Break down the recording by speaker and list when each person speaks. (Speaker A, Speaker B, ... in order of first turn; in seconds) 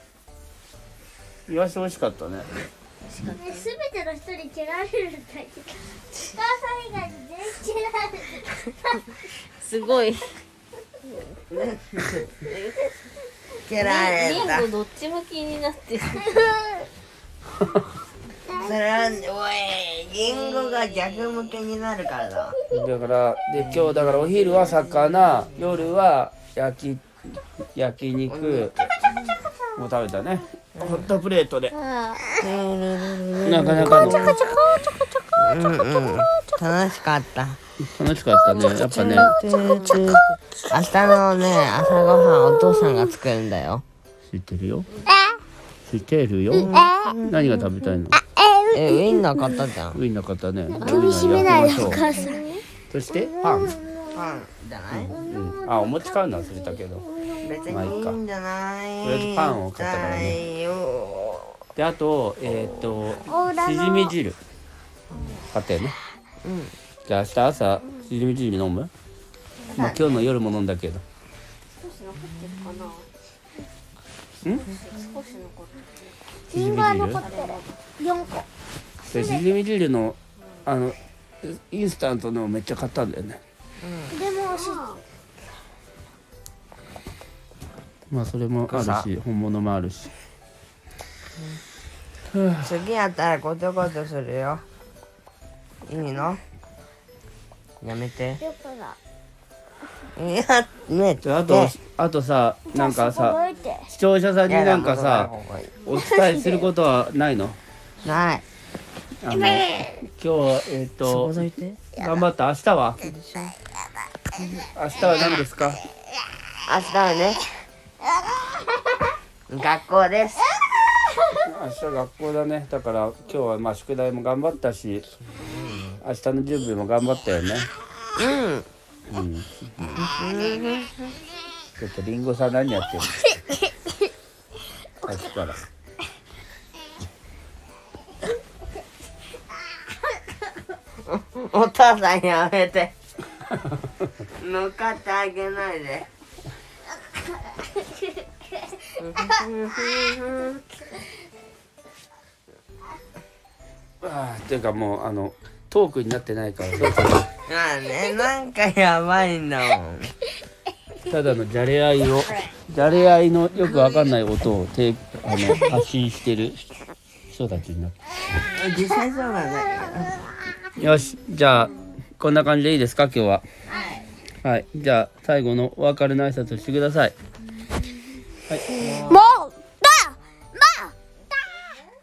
Speaker A: 1.5-2.5, 22.7-28.7, 29.8-31.7, 33.4-34.4, 37.8-39.4, 44.3-44.9, 45.9-48.2, 49.9-52.1, 52.9-53.7, 54.9-57.0, 57.7-58.2, 59.0-60.4, 61.8-64.4, 65.5-66.0, 67.0-68.9, 69.8-71.0, 76.5-77.2, 79.1-83.4, 88.1-90.1, 92.3-92.7, 101.2-105.3, 105.8-107.6, 109.2-111.4, 111.9-113.0, 114.7-115.8, 121.4-125.0, 126.0-127.7, 129.1-130.1, 131.8-133.2, 135.0-135.6, 154.0-157.3, 161.0-166.7, 167.3-167.9, 170.8-173.4, 174.4-177.1
Speaker B: 3.1-3.6, 9.6-10.4, 12.3-13.0, 13.7-16.5, 20.3-21.5, 33.8-34.1, 50.8-52.0, 65.1-65.5, 69.6-69.9, 71.7-73.1, 74.5-76.2, 77.1-77.7, 84.5-84.8
Speaker C: 3.3-8.9, 16.3-16.8, 18.5-18.8, 29.3-29.7, 31.7-32.4, 34.0-35.2, 38.5-40.0, 46.8-47.1, 48.2-49.5, 50.7-52.6, 53.2-54.3, 55.1-57.8, 63.2-64.1, 76.5-78.4, 79.1-79.4, 84.1-85.0, 98.4-99.0, 102.7-103.9, 105.9-106.7, 179.0-180.9
Speaker D: 11.5-12.3, 13.6-14.7, 18.5-22.6, 23.5-25.6, 28.3-29.1, 30.7-31.1, 32.3-34.4, 35.4-37.6, 38.7-43.8, 46.5-47.3, 48.7-50.0, 54.1-55.1, 57.4-61.5, 66.4-66.7, 69.7-70.2, 83.8-84.2, 88.7-89.1, 92.6-94.6, 95.9-96.4, 97.8-98.4, 100.1-101.7, 104.5-105.8, 108.0-108.4, 111.0-111.8, 113.0-113.5, 116.7-117.5, 119.5-120.6, 125.4-126.0, 128.2-128.7, 129.9-131.0, 141.0-142.9, 144.4-146.1, 149.0-150.6, 157.4-160.1, 168.5-170.3, 173.7-174.1, 178.7-179.2, 181.3-181.7